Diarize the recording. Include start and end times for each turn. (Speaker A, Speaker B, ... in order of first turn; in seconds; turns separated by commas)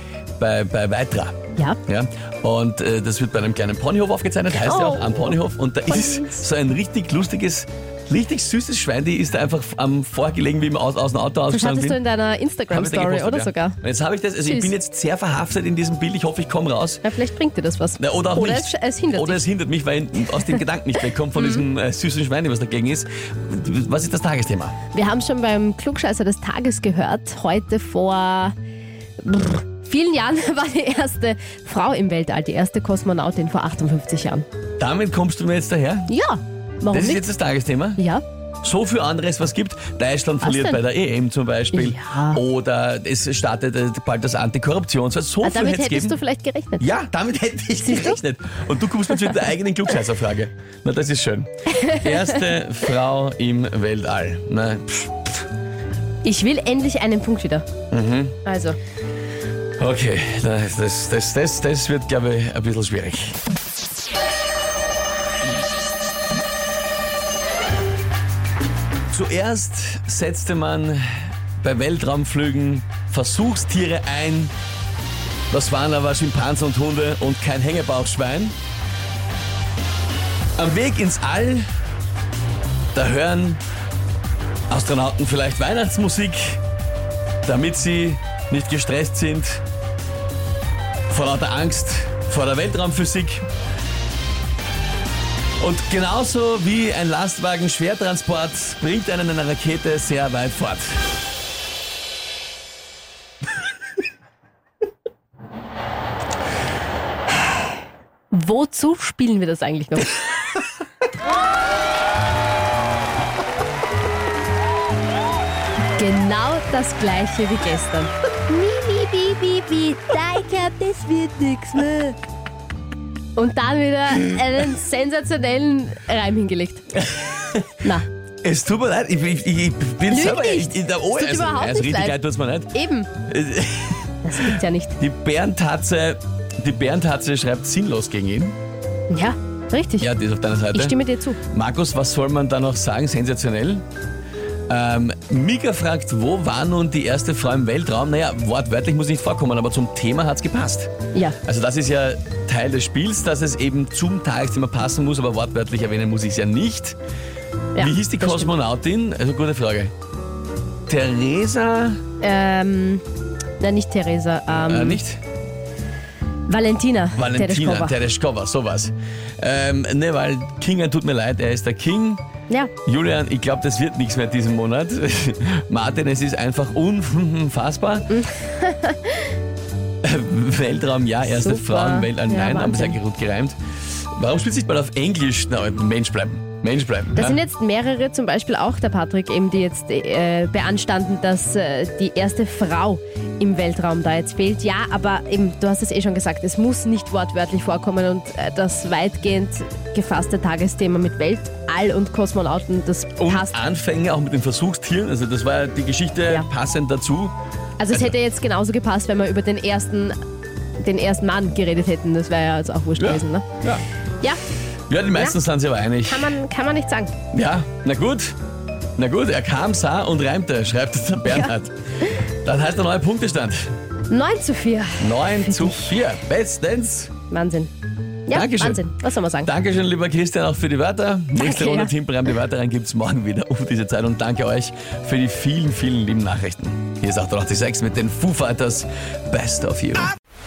Speaker A: 0.4-12.0, Speaker B: 4.6-6.4, Speaker B: 11.5-13.8, Speaker A: 12.7-17.0, Speaker B: 14.4-14.7, Speaker B: 17.0-19.4, Speaker A: 18.0-24.8, Speaker B: 21.4-21.6, Speaker B: 24.9-28.5, Speaker B: 29.2-34.5, Speaker A: 34.8-36.1, Speaker B: 36.1-37.3, Speaker A: 36.9-38.0, Speaker B: 38.0-38.2, Speaker A: 38.6-46.2, Speaker B: 40.4-40.8, Speaker B: 41.7-42.4, Speaker B: 45.4-46.9, Speaker A: 46.8-55.4, Speaker B: 47.8-48.2, Speaker B: 56.2-57.6, Speaker A: 57.9-58.4, Speaker B: 58.4-58.8, Speaker A: 59.8-63.4, Speaker A: 69.1-71.1, Speaker A: 71.6-74.5, Speaker A: 75.5-78.5, Speaker A: 80.6-81.7, Speaker A: 82.9-83.6, Speaker A: 84.7-86.6, Speaker A: 87.4-89.6, Speaker A: 91.1-93.5, Speaker A: 95.6-101.0, Speaker B: 108.3-110.2, Speaker B: 116.0-122.2, Speaker B: 123.3-126.9, Speaker A: 127.1-127.7, Speaker B: 127.8-128.1, Speaker A: 128.4-132.7, Speaker B: 130.1-132.2, Speaker B: 132.7-133.1, Speaker A: 133.2-138.6, Speaker B: 134.2-134.9, Speaker B: 139.1-140.1, Speaker A: 140.0-140.9, Speaker B: 140.7-141.4, Speaker A: 141.5-143.8, Speaker A: 144.7-150.9, Speaker A: 151.4-156.9, Speaker B: 157.7-158.5, Speaker A: 157.8-159.9, Speaker A: 160.9-162.0, Speaker B: 162.2-163.0, Speaker B: 163.6-165.0, Speaker A: 164.7-165.2, Speaker B: 166.5-168.0, Speaker A: 167.2-172.2, Speaker A: 172.8-178.1, Speaker B: 178.1-179.3, Speaker A: 180.0-187.4, Speaker B: 181.2-183.0, Speaker B: 187.1-203.6, Speaker A: 203.2-207.3, Speaker B: 207.8-210.2, Speaker B: 210.8-213.5, Speaker A: 213.0-213.8, Speaker A: 214.9-216.3, Speaker B: 216.1-217.1, Speaker A: 217.3-218.3, Speaker A: 219.0-221.7, Speaker A: 222.4-223.7, Speaker B: 224.1-226.0, Speaker A: 225.0-227.1, Speaker B: 227.3-227.7, Speaker B: 228.3-229.5, Speaker A: 228.3-228.9, Speaker A: 229.4-240.1, Speaker B: 231.3-231.9